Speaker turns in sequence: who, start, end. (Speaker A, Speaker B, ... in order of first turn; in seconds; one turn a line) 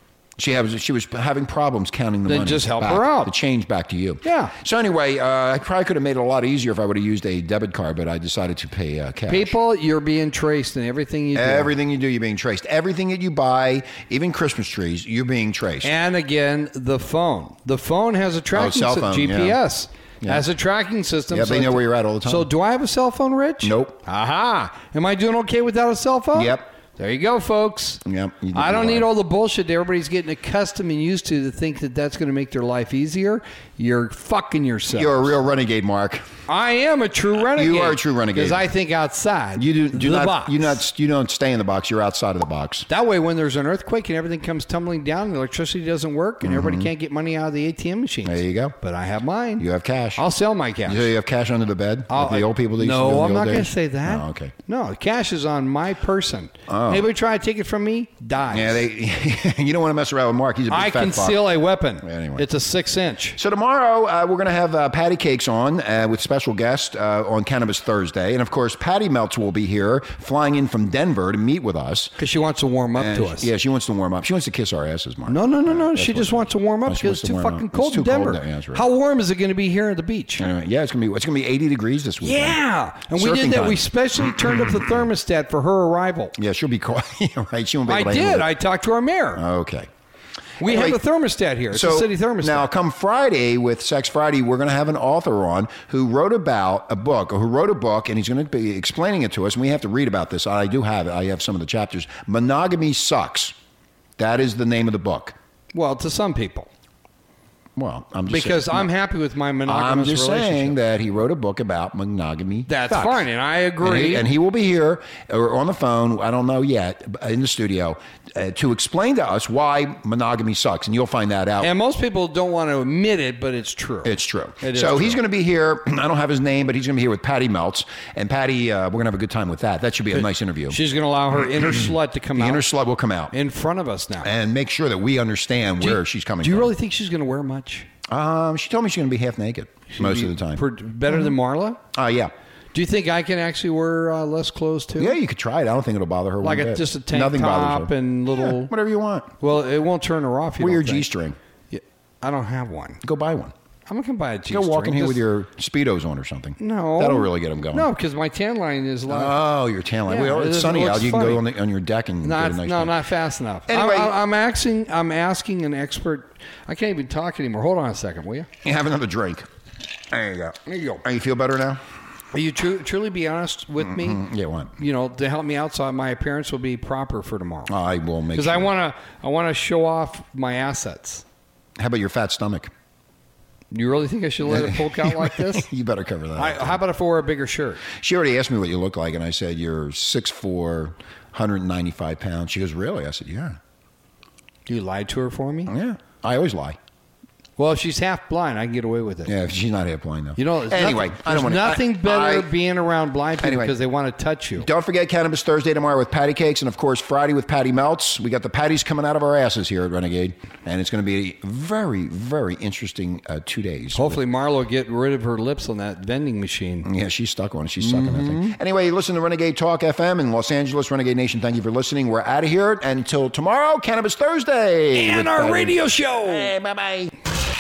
Speaker A: 0.4-9.5
Speaker B: 2.2-3.3
Speaker B: 4.2-4.5
Speaker B: 9.3-11.7
Speaker A: 11.3-15.9
Speaker B: 15.8-28.0
Speaker A: 18.5-19.6
Speaker A: 21.3-22.5
Speaker A: 23.6-24.0
Speaker A: 26.3-26.6
Speaker A: 28.0-29.1
Speaker B: 28.5-35.3
Speaker A: 34.9-36.3
Speaker B: 36.5-40.8
Speaker A: 37.5-38.7
Speaker A: 39.6-42.9
Speaker B: 42.9-51.1
Speaker A: 46.4-46.9
Speaker A: 48.2-48.7
Speaker A: 49.6-50.2
Speaker A: 50.8-54.5
Speaker B: 52.1-58.9
Speaker A: 56.7-57.1
Speaker A: 58.5-62.5
Speaker B: 60.7-63.4
Speaker A: 63.4-72.1
Speaker B: 72.2-73.5
Speaker A: 72.9-78.8
Speaker B: 75.3-80.5
Speaker A: 80.4-82.6
Speaker B: 82.2-86.3
Speaker A: 83.1-83.9
Speaker A: 84.4-84.8
Speaker A: 86.3-88.5
Speaker B: 87.9-89.4
Speaker A: 89.3-89.9
Speaker B: 90.6-92.7
Speaker A: 90.6-91.0
Speaker A: 91.7-103.5
Speaker A: 104.2-105.3
Speaker B: 105.7-106.7
Speaker A: 107.8-108.9
Speaker B: 108.3-110.8
Speaker A: 109.7-113.2
Speaker B: 112.7-114.3
Speaker A: 113.8-121.7
Speaker B: 121.6-125.2
Speaker A: 124.0-130.8
Speaker B: 130.7-132.6
Speaker A: 131.8-133.3
Speaker B: 133.3-134.3
Speaker A: 134.2-136.7
Speaker B: 135.8-137.9
Speaker A: 138.1-141.3
Speaker B: 139.9-141.8
Speaker A: 141.9-142.3
Speaker B: 142.7-145.2
Speaker A: 145.0-149.3
Speaker B: 146.4-148.7
Speaker B: 149.4-151.1
Speaker A: 150.6-151.4
Speaker B: 151.7-153.0
Speaker A: 153.0-153.5
Speaker B: 153.9-155.2
Speaker A: 154.5-157.9
Speaker B: 156.6-159.4
Speaker A: 159.1-163.0
Speaker B: 160.1-161.4
Speaker B: 162.2-168.5
Speaker A: 163.7-164.2
Speaker A: 168.6-169.5
Speaker A: 170.1-171.8
Speaker B: 170.7-171.0
Speaker B: 172.3-174.2
Speaker A: 173.8-174.7
Speaker B: 174.8-177.7
Speaker A: 177.7-178.7
Speaker B: 178.3-181.2
Speaker A: 181.8-182.7
Speaker B: 183.7-185.7
Speaker A: 184.4-186.8
Speaker B: 186.3-187.8
Speaker A: 187.8-193.6
Speaker B: 194.7-195.7
Speaker A: 195.7-196.8
Speaker B: 197.6-199.3
Speaker A: 199.2-202.5
Speaker B: 200.4-204.7
Speaker A: 203.4-203.7
Speaker A: 204.6-214.2
Speaker B: 213.9-216.9
Speaker A: 216.8-227.1
Speaker B: 217.8-218.6
Speaker B: 224.9-226.5